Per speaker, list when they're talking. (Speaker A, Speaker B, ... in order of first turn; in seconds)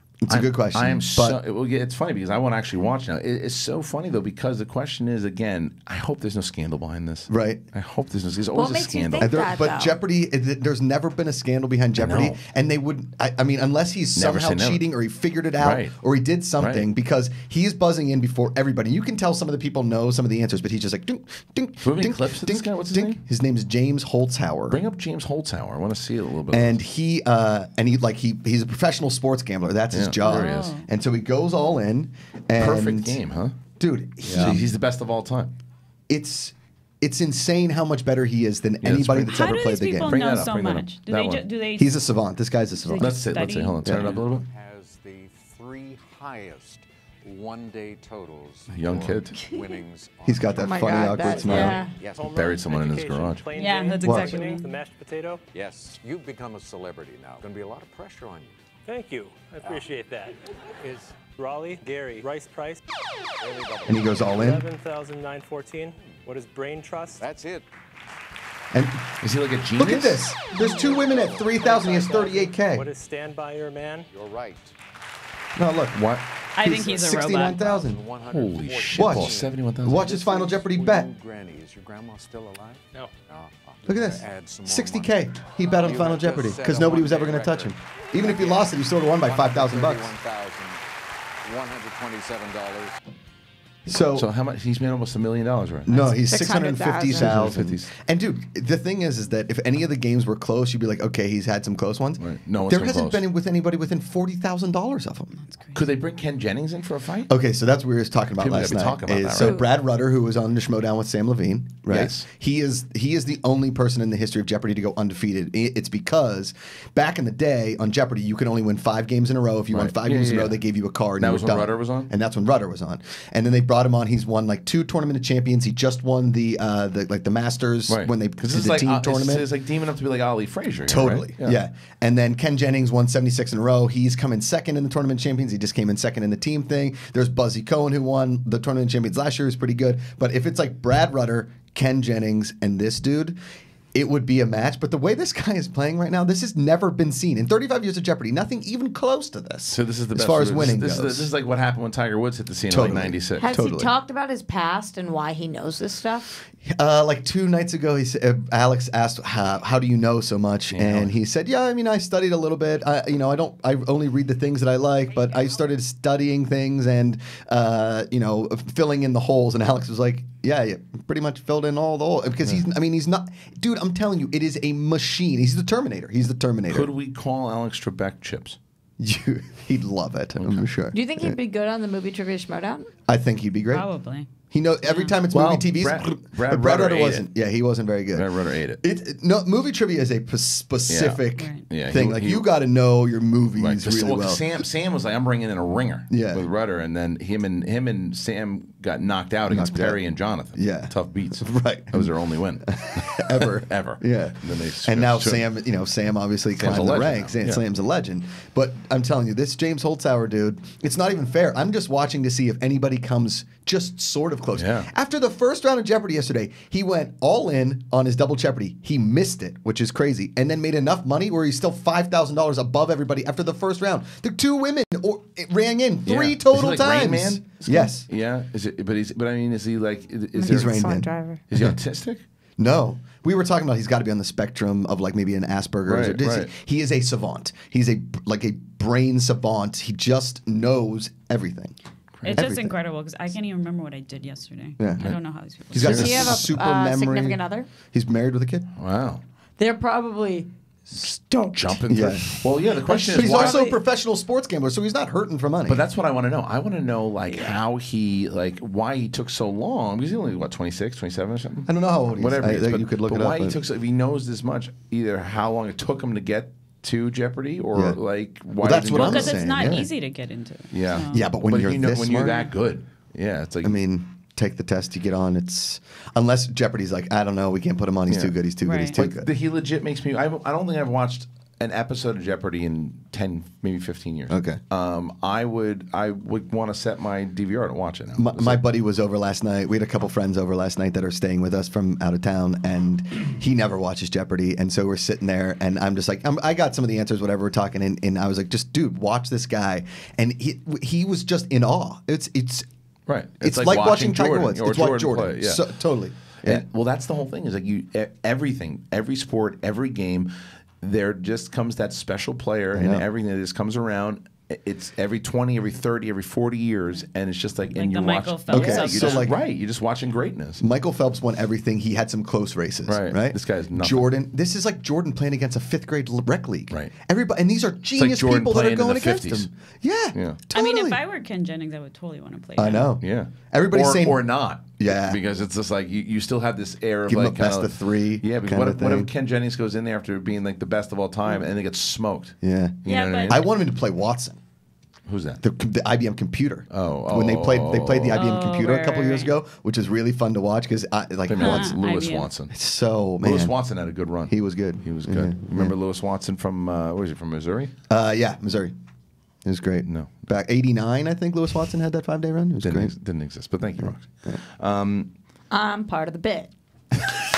Speaker A: 0.2-1.4, 7.3-7.6, 9.2-24.8, 26.5-33.2, 33.8-34.6, 36.1-40.2, 41.8-43.2, 43.8-44.2, 50.2-51.8, 54.0-54.4, 63.9-64.7, 68.7-69.0, 69.8-72.9, 75.5-76.0, 76.6-78.0, 78.9-81.1, 83.8-90.1, 93.8-94.3, 95.9-105.3, 107.3-129.5, 130.9-143.4, 143.9-151.3, 152.7-153.9, 156.7-176.9, 179.0-181.4, 183.1-183.9, 184.5-194.5, 196.1-196.4, 199.5-200.0, 200.5-202.1, 202.7-228.1, 230.5-231.8, 232.6-241.7, 242.3-242.7, 244.8-245.1, 245.7-248.7, 251.9-252.2, 253.1-255.8, 261.6-263.6, 267.7-268.0, 268.6-269.9, 271.1-272.5, 273.6-279.3, 284.3-284.6, 288.2-302.7, 303.4-306.6, 312.7-313.1, 318.5-319.4, 320.6-331.0, 332.6-334.2, 334.8-335.2, 337.1-339.1, 342.4-344.4, 345.4-351.8, 352.5-353.6, 354.2-355.7, 357.9-358.7, 359.4-362.9, 363.9-364.4
Speaker B: 0.3-9.3, 11.9-12.4, 14.2-14.8, 15.6-15.9, 16.6-16.9, 21.8-23.2, 24.7-26.8, 29.9-30.8, 32.6-33.5, 34.2-35.5, 38.8-41.4, 43.0-44.4, 48.7-49.4, 52.3-53.5, 69.2-70.2, 75.9-76.2, 78.2-80.1, 94.1-96.0, 97.1-97.9, 102.2-103.2, 105.7-107.3, 108.4-109.6, 111.9-112.3, 119.7-120.6, 121.2-122.1, 127.9-131.6, 149.7-153.5, 160.7-161.2, 176.7-178.6, 180.3-180.7, 185.3-187.3, 188.1-188.8, 190.9-192.5, 193.5-205.4, 206.5-207.6, 214.6-214.9, 226.1-230.9, 231.5-232.2, 235.8-236.5, 242.2-242.4, 245.7-246.4, 248.8-249.2, 251.5-253.6, 255.6-269.9, 270.7-273.8, 278.1-288.6, 303.1-305.6, 306.4-310.3, 310.8-320.6, 322.9-324.1, 327.9-329.5, 330.1-330.4, 333.0-343.4, 345.1-345.4, 346.7-348.2, 351.3-352.5, 353.2-357.7, 359.8-360.3, 362.6-365.1
Speaker C: 8.5-10.0, 50.6-51.9, 95.9-97.4, 109.4-109.7, 153.4-156.4, 180.9-182.9, 230.3-231.4, 245.9-247.7, 249.6-251.8, 252.8-253.7, 365.5-366.5
Speaker D: 30.2-30.9, 39.3-41.9, 42.7-44.1, 53.5-54.7, 76.5-77.8, 105.4-105.8, 183.7-184.3, 184.8-185.2, 191.4-191.6, 242.3-246.1, 268.9-271.3, 278.6-278.9, 317.7-319.3, 330.5-332.9, 342.9-343.5, 348.1-349.3, 351.4-352.3
Speaker E: 44.0-52.4, 55.5-58.5, 59.6-59.9, 60.8-61.2, 63.4-64.4, 66.0-66.2, 67.2-67.7, 71.1-71.5, 74.1-74.7, 76.7-77.1, 77.7-85.2, 85.7-90.8, 91.4-93.0
Speaker F: 51.9-55.4, 58.8-60.4, 61.3-62.8, 64.3-67.2, 70.7-74.1